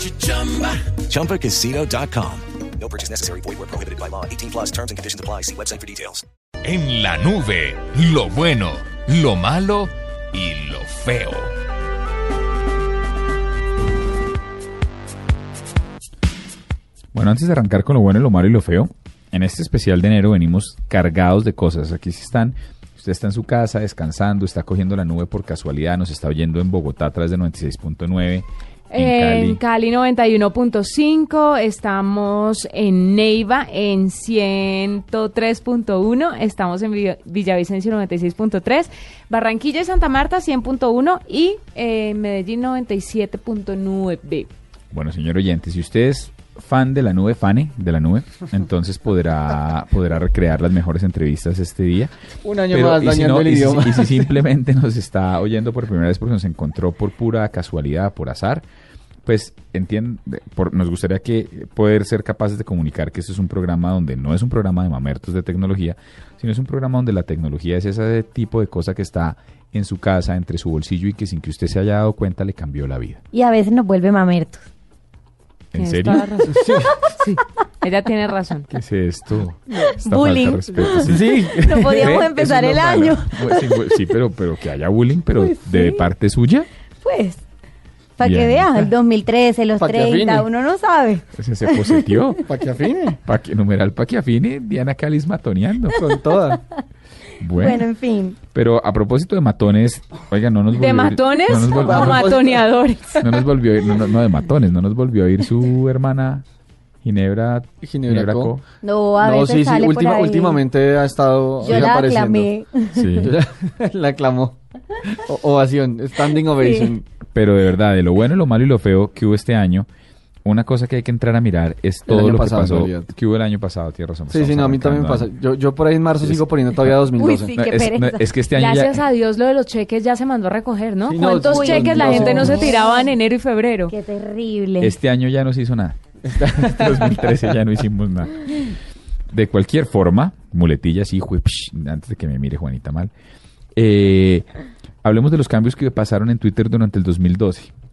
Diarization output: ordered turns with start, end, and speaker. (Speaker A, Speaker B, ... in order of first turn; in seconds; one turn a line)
Speaker A: 0.2-0.8
Speaker B: 1.1-6.2
Speaker C: 2.6-6.2
Speaker A: 6.6-11.5
Speaker D: 17.1-29.6
Speaker C: 29.2-44.5
Speaker D: 44.9-52.1
Speaker E: 52.4-54.4
Speaker D: 52.7-58.6
Speaker D: 59.2-73.2
Speaker F: 73.3-74.6
Speaker D: 75.7-76.3
Speaker C: 75.8-76.5
Speaker E: 76.4-77.0
Speaker C: 77.2-78.7
Speaker D: 78.7-81.3
Speaker F: 79.8-84.2
Speaker E: 80.9-82.2
Speaker D: 81.8-86.7
Speaker F: 85.3-86.0
Speaker F: 87.0-87.4
Speaker F: 88.2-92.0
Speaker D: 88.2-88.9
Speaker E: 89.8-90.5
Speaker D: 91.4-92.5
Speaker E: 92.4-93.2
Speaker D: 93.2-96.0
Speaker E: 95.9-96.6
Speaker D: 97.4-97.9
Speaker F: 97.5-98.4
Speaker D: 98.5-102.4
Speaker C: 100.8-103.2
Speaker E: 101.5-102.7
Speaker D: 103.1-106.4
Speaker D: 107.0-108.6
Speaker E: 107.8-108.6
Speaker F: 108.8-110.6
Speaker E: 109.2-112.5
Speaker F: 111.6-113.3
Speaker D: 112.9-113.3
Speaker E: 113.2-114.5
Speaker E: 115.1-117.0
Speaker D: 117.2-119.9
Speaker D: 120.4-125.3
Speaker E: 122.0-123.1
Speaker E: 124.3-127.5
Speaker D: 126.2-126.9
Speaker F: 127.1-128.3
Speaker D: 127.5-129.1
Speaker C: 129.2-133.9
Speaker E: 131.0-132.9
Speaker F: 131.3-133.1
Speaker F: 133.9-134.9
Speaker D: 134.8-138.8
Speaker E: 136.3-137.5
Speaker D: 139.3-143.1
Speaker D: 143.8-144.5
Speaker D: 145.0-147.7